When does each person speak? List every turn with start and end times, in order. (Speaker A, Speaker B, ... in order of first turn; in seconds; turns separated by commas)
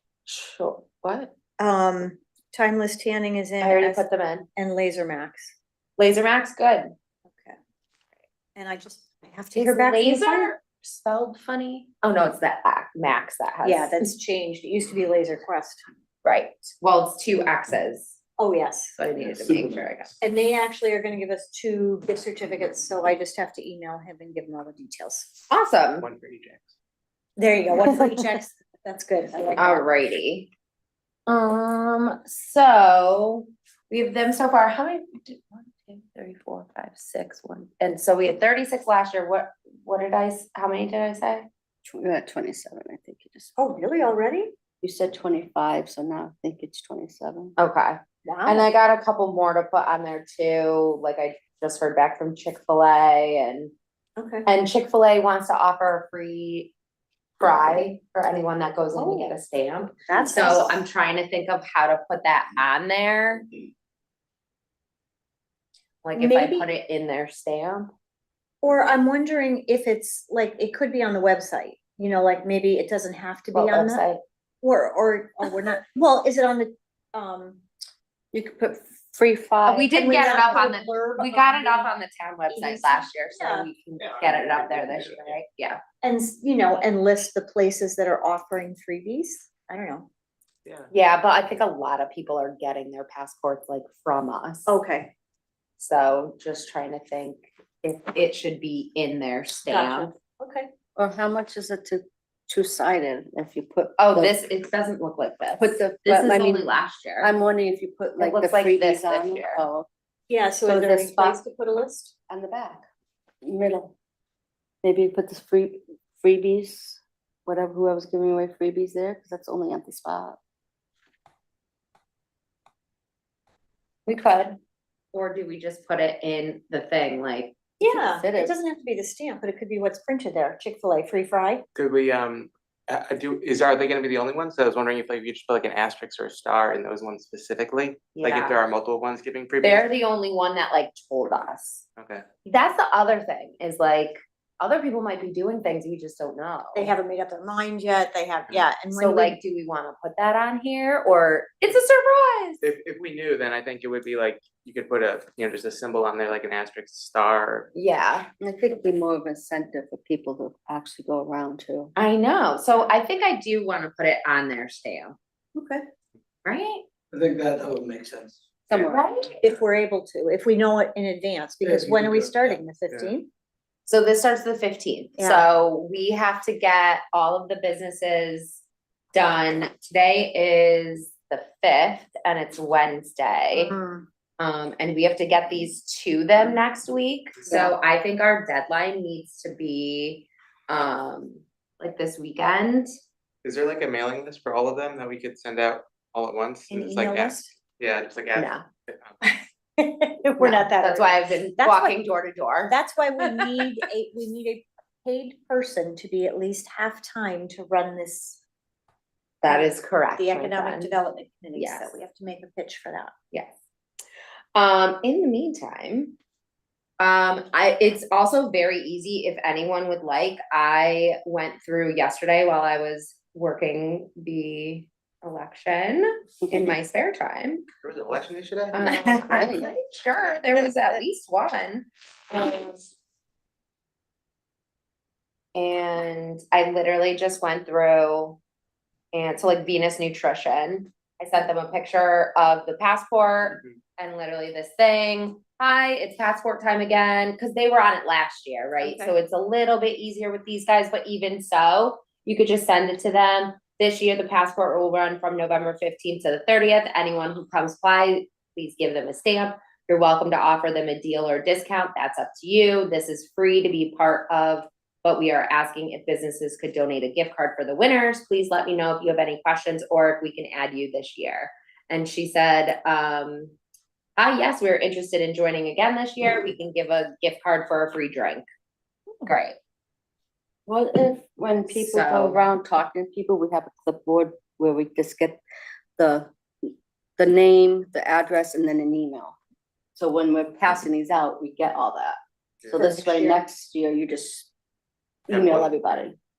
Speaker A: 0.3-1.3, Speaker B: 1.6-5.5, Speaker A: 3.6-4.5, Speaker A: 6.0-6.9, Speaker B: 7.3-7.5, Speaker B: 8.5-10.5, Speaker A: 9.5-14.1, Speaker B: 13.6-15.9, Speaker A: 16.2-18.2, Speaker B: 18.4-19.0, Speaker A: 19.0-20.1, Speaker B: 20.2-25.3, Speaker A: 25.5-26.1, Speaker C: 26.0-26.7, Speaker B: 27.4-29.8, Speaker A: 29.6-30.5, Speaker A: 31.3-41.5, Speaker D: 41.8-43.6, Speaker B: 43.6-44.5, Speaker D: 44.8-47.5, Speaker A: 47.6-53.7, Speaker B: 48.2-48.7, Speaker B: 54.2-54.5, Speaker A: 54.5-56.7, Speaker A: 57.4-63.5, Speaker B: 58.9-59.3, Speaker B: 60.0-60.8, Speaker A: 66.0-67.9, Speaker B: 66.1-66.7, Speaker B: 68.6-74.1, Speaker A: 73.5-74.2, Speaker B: 74.6-77.6, Speaker D: 78.3-79.9, Speaker A: 79.6-85.8, Speaker B: 79.9-81.9, Speaker B: 82.5-83.7, Speaker C: 84.0-84.3, Speaker B: 86.0-90.1, Speaker A: 90.9-94.7, Speaker B: 94.7-95.1, Speaker A: 95.8-100.1, Speaker B: 99.7-100.7, Speaker D: 101.0-104.3, Speaker A: 104.0-107.3, Speaker D: 105.6-106.7, Speaker D: 107.2-109.9, Speaker A: 108.2-109.6, Speaker B: 110.3-112.1, Speaker D: 110.6-111.4, Speaker D: 112.3-112.9, Speaker D: 113.4-113.9, Speaker D: 114.8-120.4, Speaker A: 124.1-124.6, Speaker A: 125.1-127.6, Speaker B: 127.8-131.6, Speaker D: 127.8-128.6, Speaker C: 131.7-139.9, Speaker A: 138.1-138.6, Speaker A: 139.6-141.8, Speaker C: 142.0-142.2, Speaker A: 142.4-146.9, Speaker B: 146.7-149.4, Speaker A: 148.9-152.6, Speaker C: 152.6-157.7, Speaker A: 157.7-158.3, Speaker D: 158.4-161.9, Speaker A: 161.9-165.2, Speaker B: 165.5-165.8, Speaker A: 166.4-166.8, Speaker E: 167.1-168.9, Speaker A: 168.8-169.4, Speaker B: 169.4-173.3, Speaker E: 171.6-172.5, Speaker A: 173.9-178.6, Speaker B: 175.2-175.5, Speaker A: 179.1-183.7, Speaker B: 183.5-184.1, Speaker A: 184.4-192.9, Speaker B: 187.5-187.7, Speaker C: 193.4-199.2, Speaker B: 196.7-197.5, Speaker A: 198.3-198.6, Speaker B: 199.8-202.0, Speaker A: 200.4-202.8, Speaker B: 202.7-208.4, Speaker A: 209.4-211.0, Speaker B: 209.5-213.1, Speaker A: 211.5-212.0, Speaker A: 214.5-216.2, Speaker A: 217.0-227.6, Speaker D: 226.4-226.7, Speaker C: 227.8-228.8, Speaker A: 228.7-232.9, Speaker D: 228.9-229.7, Speaker A: 235.5-238.4, Speaker A: 239.1-273.5, Speaker B: 248.8-249.1, Speaker A: 274.2-278.4, Speaker A: 279.2-279.6, Speaker D: 280.7-285.4, Speaker A: 281.7-282.5, Speaker D: 286.0-289.4, Speaker D: 289.9-292.2, Speaker D: 292.7-294.5, Speaker A: 293.0-293.3, Speaker D: 295.3-296.1, Speaker C: 295.3-295.7